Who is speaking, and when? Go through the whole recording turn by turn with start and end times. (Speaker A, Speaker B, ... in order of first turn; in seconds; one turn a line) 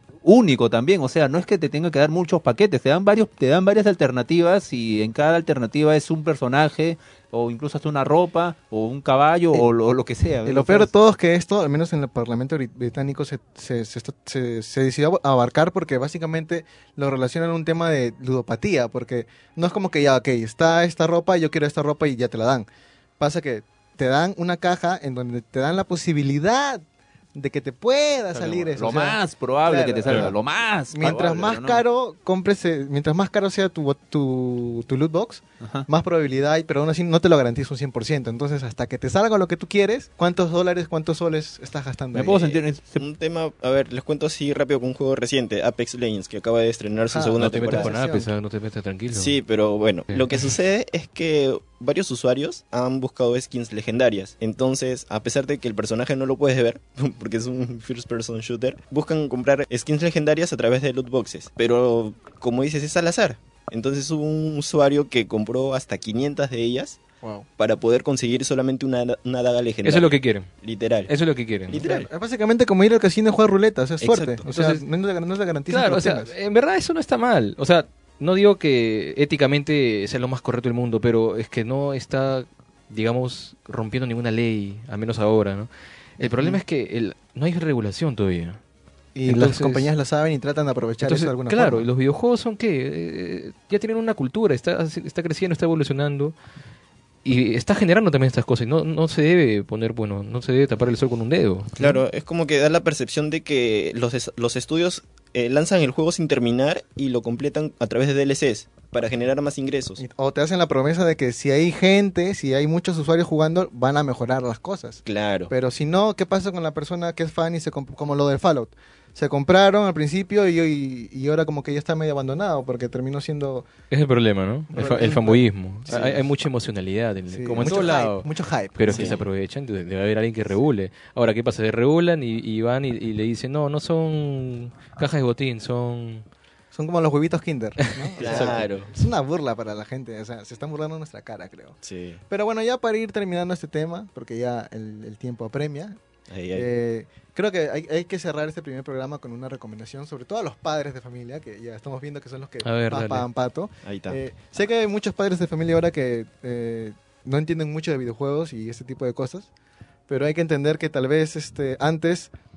Speaker A: 0.2-10.9
Speaker B: 10.4-22.7
Speaker B: 23.2-30.4
Speaker A: 28.3-31.8
Speaker B: 30.9-42.4
Speaker A: 35.6-35.9
Speaker A: 42.1-43.0
Speaker C: 42.3-47.9
Speaker B: 47.1-48.3
Speaker D: 47.4-49.4
Speaker C: 49.1-67.0
Speaker D: 50.1-50.5
Speaker C: 67.6-71.1
Speaker D: 69.8-70.5
Speaker D: 71.1-71.8
Speaker C: 71.7-72.1
Speaker B: 71.8-76.3
Speaker C: 74.0-74.5
Speaker D: 74.4-74.8
Speaker D: 75.7-88.6
Speaker B: 86.2-86.6
Speaker B: 89.1-91.9
Speaker D: 89.2-89.9
Speaker D: 91.0-96.3
Speaker D: 97.2-101.8
Speaker C: 101.8-110.0
Speaker B: 110.0-123.7
Speaker C: 115.0-115.5
Speaker D: 123.9-136.2
Speaker B: 124.7-126.1
Speaker C: 125.9-126.2
Speaker B: 127.3-129.2
Speaker C: 128.9-129.2
Speaker B: 136.7-141.8
Speaker D: 137.9-138.6
Speaker C: 138.2-138.9
Speaker C: 141.8-142.2
Speaker B: 142.3-146.0
Speaker C: 146.3-146.7
Speaker B: 146.5-159.5
Speaker D: 152.6-153.3
Speaker C: 153.8-154.2
Speaker B: 160.1-162.3